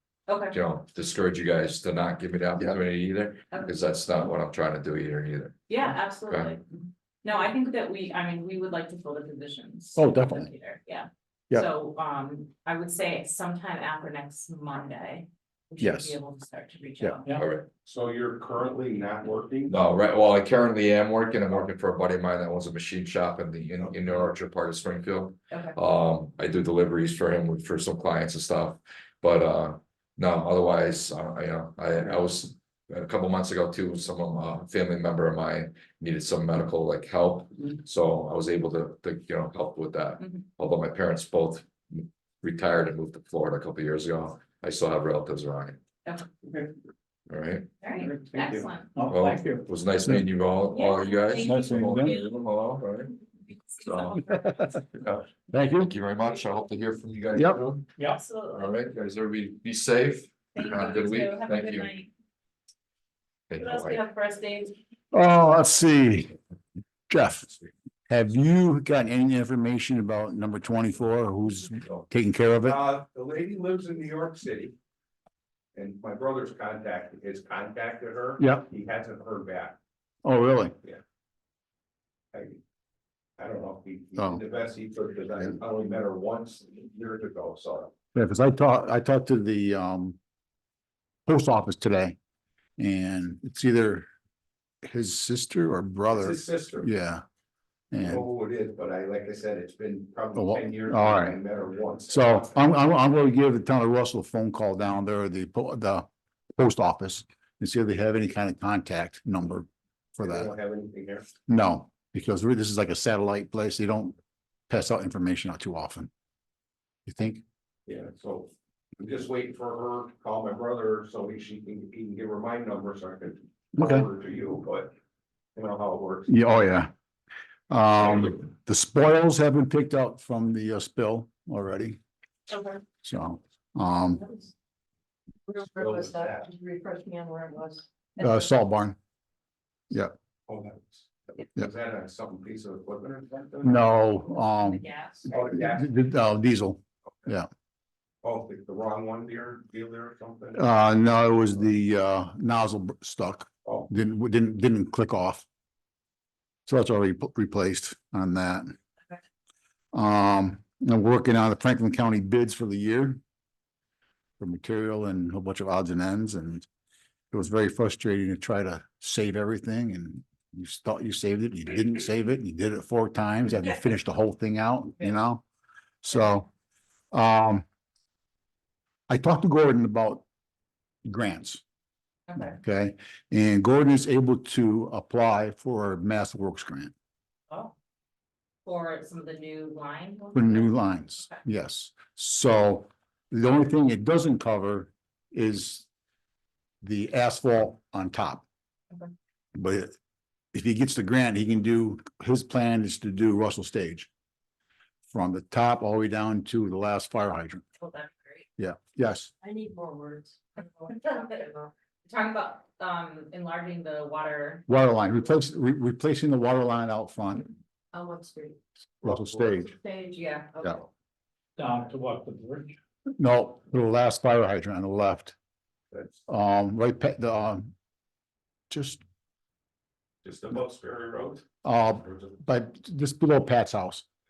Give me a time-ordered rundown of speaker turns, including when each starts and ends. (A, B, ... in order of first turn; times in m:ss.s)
0:00.3-0:00.6 A
0:00.5-0:05.6 B
0:05.7-0:06.6 A
0:06.3-0:06.5 B
0:07.2-0:17.4 A
0:10.0-0:10.5 C
0:15.8-0:16.2 C
0:17.4-0:17.7 B
0:17.8-0:19.8 D
0:19.7-0:45.8 B
0:23.8-0:24.2 D
0:25.5-0:25.8 A
0:40.2-0:40.4 A
0:47.3-0:47.7 B
0:47.8-0:48.9 A
0:49.0-0:49.7 E
0:49.1-0:53.1 B
0:50.7-0:52.3 A
0:51.4-0:52.2 C
0:53.4-0:54.8 A
0:53.8-0:54.2 B
0:54.9-0:57.9 B
0:55.5-0:55.9 C
0:57.3-0:57.6 C
0:58.0-0:58.8 A
0:58.5-1:01.9 B
1:00.5-1:02.1 A
1:03.5-1:04.0 B
1:03.6-1:04.7 A
1:05.1-1:06.4 C
1:07.1-1:07.5 C
1:08.1-1:12.8 C
1:12.6-1:14.8 D
1:15.8-1:19.8 D
1:18.4-1:18.7 C
1:20.2-1:20.8 C
1:22.3-1:22.6 D
1:23.4-1:27.9 D
1:28.1-1:30.2 C
1:31.3-1:32.2 C
1:32.8-1:34.1 C
1:34.8-1:37.2 C
1:36.1-1:36.9 D
1:37.9-1:38.2 C
1:38.0-1:42.5 D
1:40.4-1:41.4 C
1:42.1-1:50.5 C
1:50.2-1:51.3 D
1:51.5-1:54.2 C
1:54.7-1:56.1 C
1:57.1-1:57.4 C
1:57.9-2:04.9 D
2:03.8-2:04.1 C
2:05.6-2:06.3 D
2:06.3-2:06.9 C
2:07.7-2:12.0 C
2:12.5-2:12.8 F
2:13.0-2:14.2 C
2:14.3-2:14.5 F
2:15.5-2:18.4 F
2:15.7-2:16.5 D
2:18.2-2:19.0 C
2:20.5-2:23.8 D
2:23.6-2:27.5 C
2:24.6-2:25.3 A
2:25.3-2:25.9 D
2:28.2-2:30.6 D
2:30.6-2:35.5 C
2:36.7-2:38.7 C
2:39.9-2:43.2 C
2:44.4-2:46.7 C
2:47.3-2:55.4 C
2:56.0-2:56.5 C
2:57.1-2:57.6 C
2:59.1-3:00.2 C
3:01.0-3:01.6 C
3:02.3-3:02.6 A
3:02.4-3:06.9 C
3:07.5-3:07.7 A
3:08.6-3:11.4 A
3:10.3-3:15.9 C
3:16.8-3:18.4 C
3:19.6-3:19.9 C
3:20.5-3:24.1 C
3:25.1-3:27.6 C
3:27.8-3:28.5 A
3:28.6-3:29.3 C
3:29.4-3:31.7 F
3:30.8-3:31.5 A
3:32.1-3:34.7 A
3:34.7-3:37.5 C
3:37.9-3:38.6 F
3:39.0-3:39.7 C
3:39.4-3:40.9 F
3:40.2-3:40.6 A
3:41.6-3:42.8 E
3:43.2-3:45.4 C
3:45.9-3:46.2 D
3:46.3-3:47.7 C
3:48.7-3:49.0 C
3:50.2-3:51.4 D
3:51.6-3:54.0 C